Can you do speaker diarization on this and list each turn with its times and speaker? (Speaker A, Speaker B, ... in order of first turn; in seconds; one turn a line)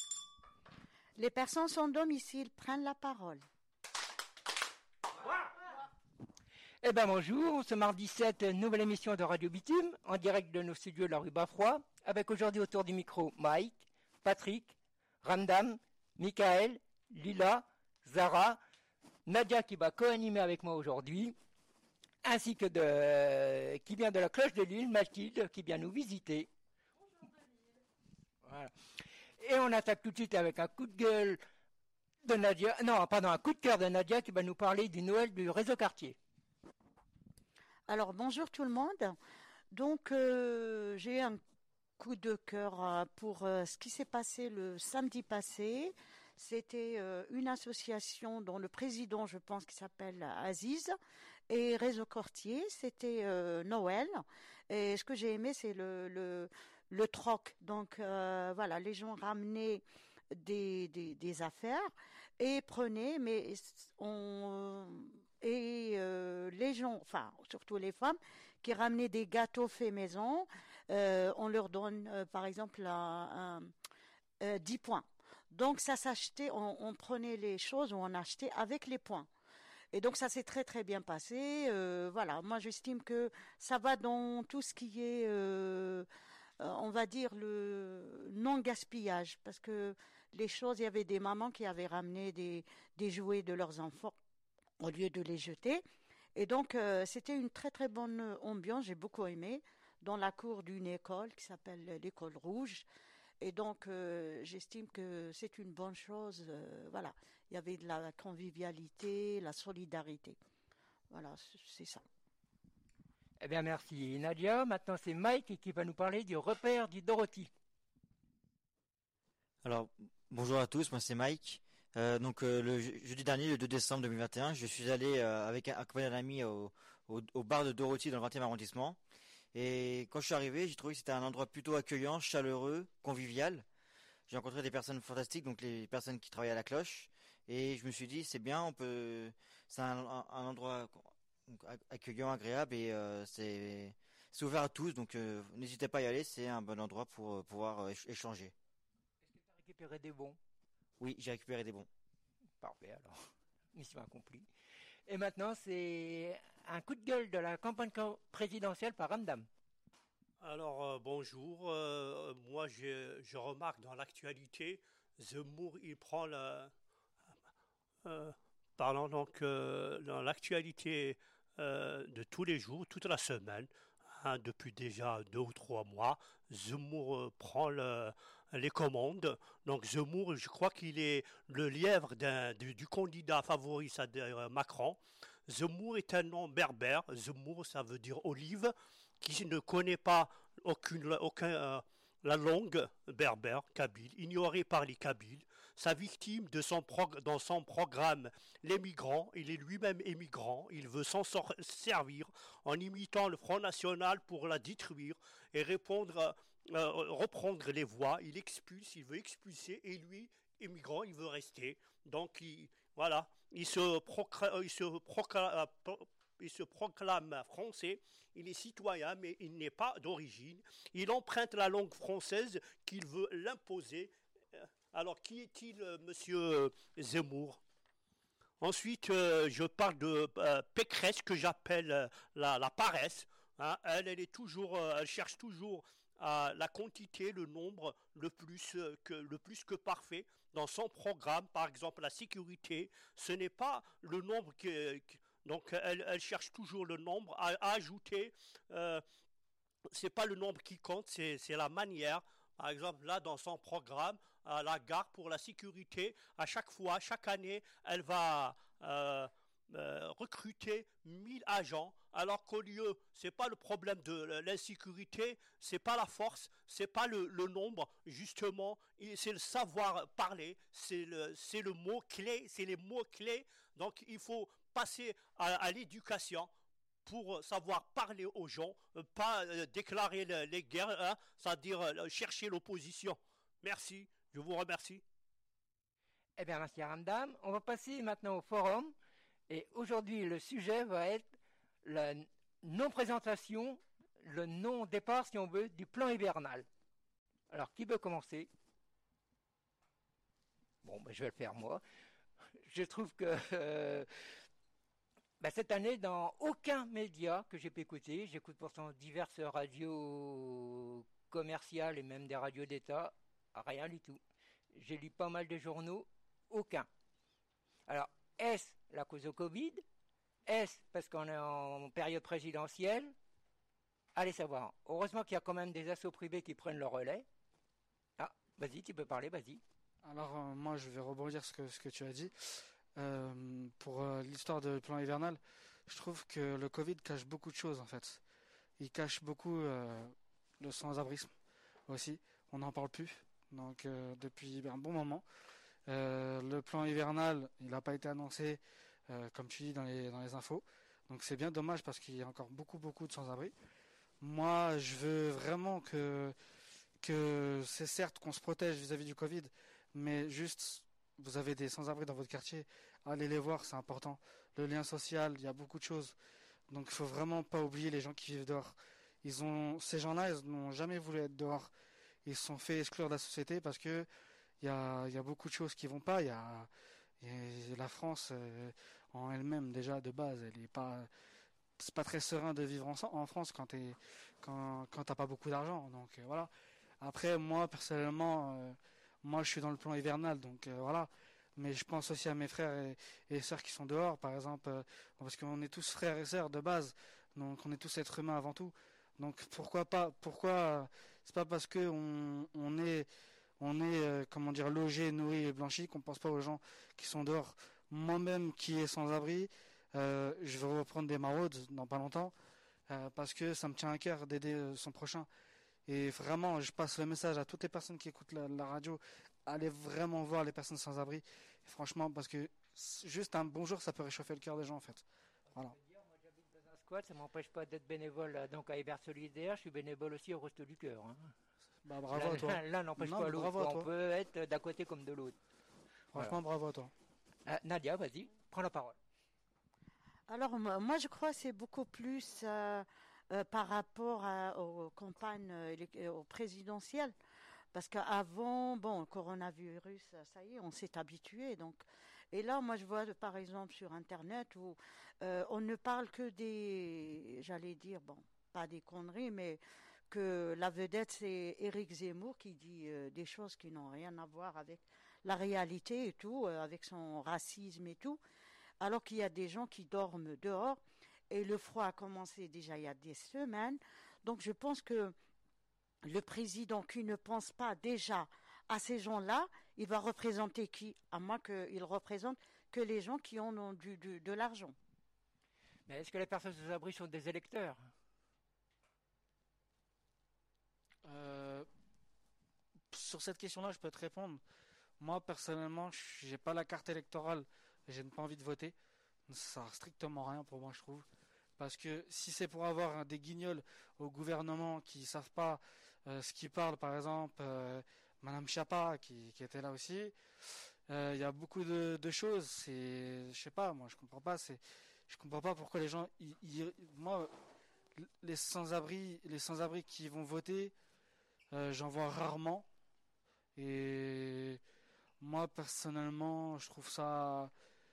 Speaker A: 1.2-3.4
Speaker B: 6.8-18.6
Speaker B: 19.3-21.4
Speaker B: 22.2-26.5
Speaker B: 28.4-31.4
Speaker B: 32.2-36.2
Speaker A: 37.9-39.2
Speaker A: 39.7-41.4
Speaker A: 42.0-51.0
Speaker A: 51.5-73.7
Speaker A: 74.4-79.3
Speaker A: 79.9-86.1
Speaker A: 86.6-94.2
Speaker A: 94.8-95.8
Speaker A: 96.4-102.9
Speaker A: 103.4-110.4
Speaker A: 111.1-112.0
Speaker B: 113.4-117.5
Speaker C: 119.6-129.0
Speaker C: 129.5-133.7
Speaker C: 134.3-148.5
Speaker B: 149.3-150.4
Speaker C: 151.0-151.9
Speaker B: 152.6-154.5
Speaker B: 155.1-159.5
Speaker D: 160.4-166.7
Speaker D: 168.0-227.6
Speaker D: 228.6-249.0
Speaker D: 249.9-276.5
Speaker D: 277.1-285.0
Speaker B: 286.4-288.9
Speaker B: 289.5-296.7
Speaker B: 297.5-298.5
Speaker B: 300.8-301.8
Speaker B: 302.6-304.4
Speaker B: 305.4-314.2
Speaker B: 314.7-316.9
Speaker B: 317.9-319.8
Speaker B: 320.5-323.1
Speaker B: 324.1-327.3
Speaker B: 328.2-329.6
Speaker E: 330.0-338.2
Speaker E: 338.8-341.3
Speaker E: 341.9-345.2
Speaker E: 345.9-353.5
Speaker E: 354.2-356.4
Speaker E: 357.0-366.2
Speaker E: 366.7-371.7
Speaker E: 372.2-374.1
Speaker E: 374.6-381.1
Speaker E: 381.8-403.1
Speaker E: 403.6-412.3
Speaker E: 412.9-415.3
Speaker E: 415.9-425.8
Speaker B: 425.5-431.3
Speaker E: 431.9-433.9
Speaker B: 432.1-435.4
Speaker E: 436.1-436.9
Speaker B: 437.5-439.0
Speaker A: 440.3-447.1
Speaker A: 447.7-468.2
Speaker A: 468.8-475.1
Speaker A: 476.0-484.8
Speaker B: 485.9-487.9
Speaker E: 491.1-491.7
Speaker E: 492.9-494.4
Speaker E: 495.0-498.8
Speaker E: 499.3-501.1
Speaker E: 501.6-517.3
Speaker E: 518.0-520.7
Speaker E: 521.5-522.7
Speaker E: 523.6-524.6
Speaker E: 525.2-527.5